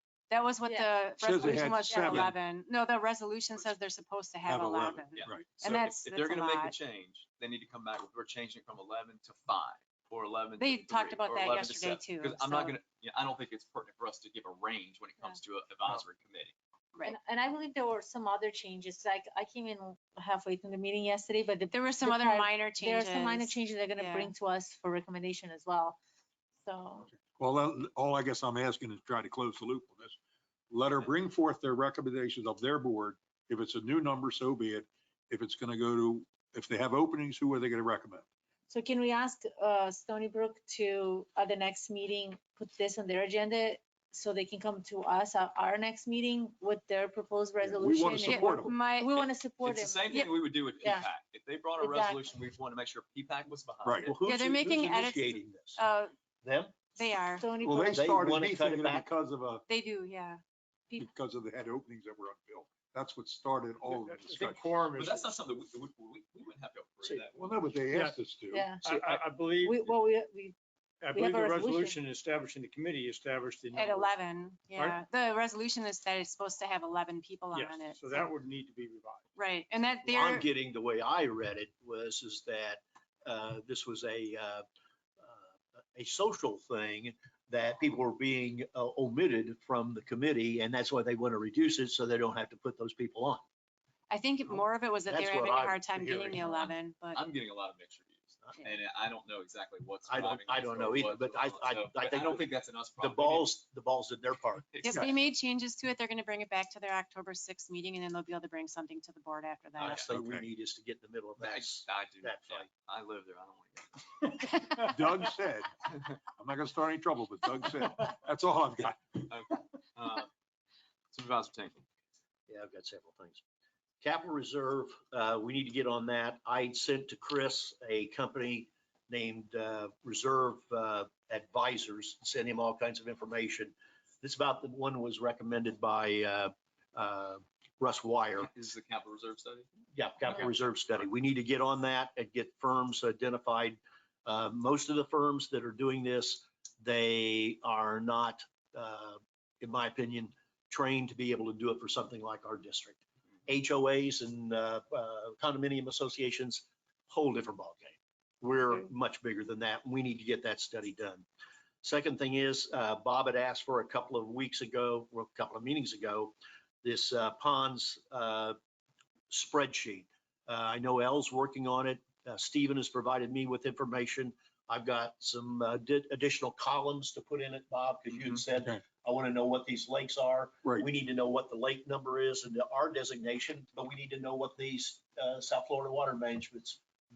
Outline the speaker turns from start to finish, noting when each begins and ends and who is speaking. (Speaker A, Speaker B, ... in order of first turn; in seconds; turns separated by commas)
Speaker A: 0.3-6.7, Speaker B: 0.7-2.2, Speaker C: 1.2-2.3, Speaker C: 4.5-5.5, Speaker D: 5.2-16.5, Speaker A: 10.6-12.8, Speaker B: 17.0-26.0, Speaker A: 21.7-24.3, Speaker B: 26.6-27.1, Speaker C: 27.2-30.2, Speaker C: 30.7-38.2, Speaker B: 38.7-51.1, Speaker C: 47.6-48.7, Speaker A: 48.2-49.3, Speaker D: 49.6-54.2, Speaker B: 51.8-52.3, Speaker C: 53.8-54.1, Speaker E: 54.1-55.8, Speaker A: 54.2-56.1, Speaker E: 56.4-56.8, Speaker A: 57.0-57.5, Speaker B: 57.4-58.2, Speaker C: 57.6-59.6, Speaker E: 57.9-59.0, Speaker A: 59.7-60.4, Speaker C: 61.0-64.6, Speaker F: 63.9-65.3, Speaker D: 64.9-67.4, Speaker C: 67.3-68.7, Speaker F: 67.9-68.2, Speaker B: 68.5-70.6, Speaker F: 68.8-69.9, Speaker F: 71.0-74.1, Speaker B: 71.1-72.0, Speaker A: 73.8-78.2, Speaker F: 77.5-79.3, Speaker A: 79.4-80.5, Speaker E: 80.0-84.6, Speaker E: 85.2-93.4, Speaker A: 94.1-97.2, Speaker E: 95.1-96.6, Speaker D: 97.1-103.6, Speaker E: 100.1-102.5, Speaker E: 103.0-104.6, Speaker D: 104.6-105.1, Speaker A: 104.8-110.1, Speaker E: 109.8-112.7, Speaker C: 109.9-110.4, Speaker D: 111.4-114.4, Speaker C: 114.8-119.2, Speaker D: 119.2-120.3, Speaker D: 121.1-121.8, Speaker E: 122.5-123.4, Speaker E: 124.0-138.5, Speaker D: 138.4-139.7, Speaker E: 139.9-161.2, Speaker D: 140.3-141.1, Speaker E: 161.8-168.6, Speaker E: 169.3-186.8, Speaker D: 178.1-178.4